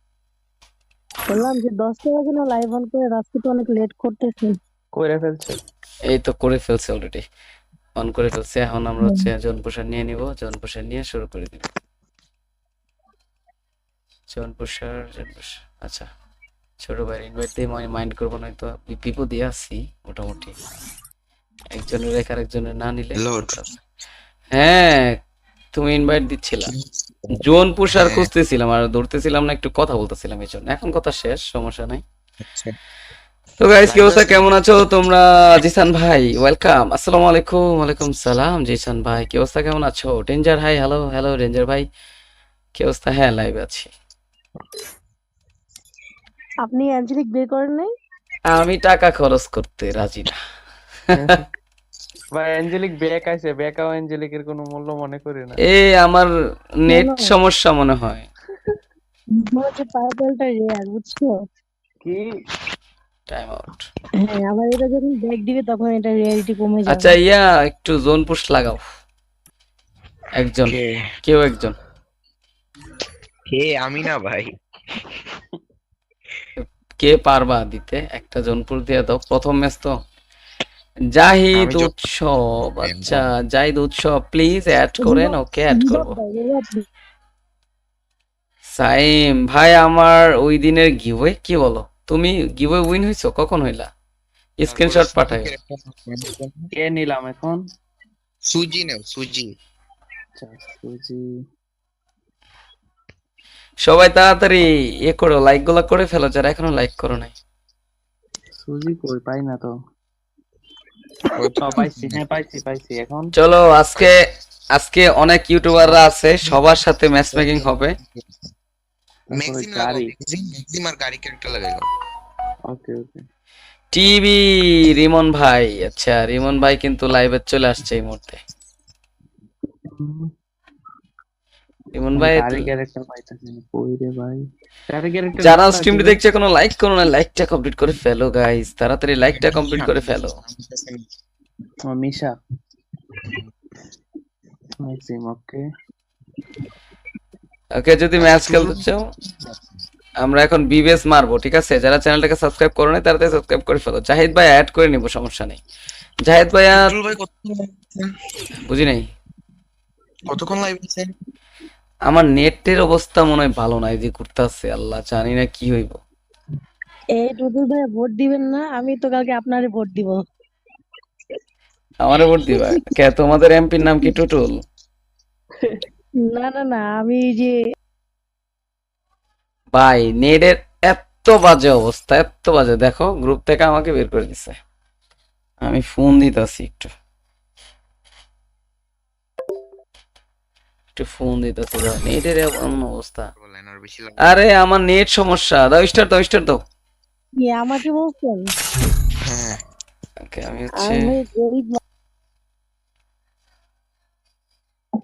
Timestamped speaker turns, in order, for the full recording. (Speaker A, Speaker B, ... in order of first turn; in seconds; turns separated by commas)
Speaker A: 1.3-4.6, Speaker B: 4.9-5.6, Speaker C: 6.1-7.2, Speaker C: 8.0-11.7, Speaker A: 9.0-9.3, Speaker C: 14.3-16.1, Speaker C: 16.8-20.6, Speaker C: 21.7-23.7, Speaker D: 23.1-23.8, Speaker C: 24.5-25.2, Speaker C: 25.7-26.7, Speaker D: 26.7-27.4, Speaker C: 27.3-32.0, Speaker D: 27.9-28.3, Speaker D: 32.4-32.7, Speaker C: 33.6-41.9, Speaker D: 33.9-34.5, Speaker C: 42.8-43.9, Speaker A: 46.6-47.9, Speaker C: 48.5-50.4, Speaker B: 51.1-51.4, Speaker B: 52.3-55.6, Speaker C: 55.6-56.3, Speaker A: 56.9-57.3, Speaker C: 56.9-58.3, Speaker A: 59.4-61.4, Speaker C: 63.3-63.9, Speaker A: 64.2-67.2, Speaker C: 66.9-68.8, Speaker C: 70.4-71.8, Speaker D: 70.7-71.1, Speaker D: 73.5-74.5, Speaker C: 76.6-79.9, Speaker C: 81.2-86.2, Speaker D: 81.5-81.9, Speaker D: 82.8-83.3, Speaker A: 85.0-86.8, Speaker C: 88.8-93.9, Speaker C: 94.6-95.5, Speaker D: 94.7-96.7, Speaker B: 96.8-97.6, Speaker D: 98.4-99.5, Speaker B: 100.4-101.2, Speaker C: 103.8-107.3, Speaker B: 108.6-109.7, Speaker D: 111.3-112.2, Speaker B: 111.6-113.3, Speaker C: 113.3-114.2, Speaker C: 114.8-118.0, Speaker D: 115.8-116.7, Speaker D: 117.3-118.5, Speaker B: 119.3-120.1, Speaker D: 119.3-121.9, Speaker B: 122.7-123.2, Speaker C: 123.9-128.4, Speaker B: 129.9-130.3, Speaker C: 131.9-132.7, Speaker B: 132.1-136.2, Speaker C: 135.4-140.4, Speaker D: 139.3-141.2, Speaker B: 141.9-142.3, Speaker D: 143.2-143.5, Speaker B: 144.8-145.6, Speaker C: 147.8-149.1, Speaker D: 148.2-149.8, Speaker C: 150.2-155.6, Speaker C: 156.2-156.9, Speaker D: 156.7-158.1, Speaker C: 158.7-159.1, Speaker D: 160.3-161.1, Speaker C: 162.1-166.0, Speaker A: 167.2-170.2, Speaker C: 172.0-174.6, Speaker B: 175.6-175.8, Speaker A: 176.2-177.6, Speaker C: 179.7-184.6, Speaker C: 185.6-186.9, Speaker C: 190.9-193.3, Speaker D: 193.3-194.4, Speaker C: 194.2-196.6, Speaker A: 197.4-198.5, Speaker D: 199.2-199.6, Speaker C: 200.3-201.0, Speaker A: 200.8-201.8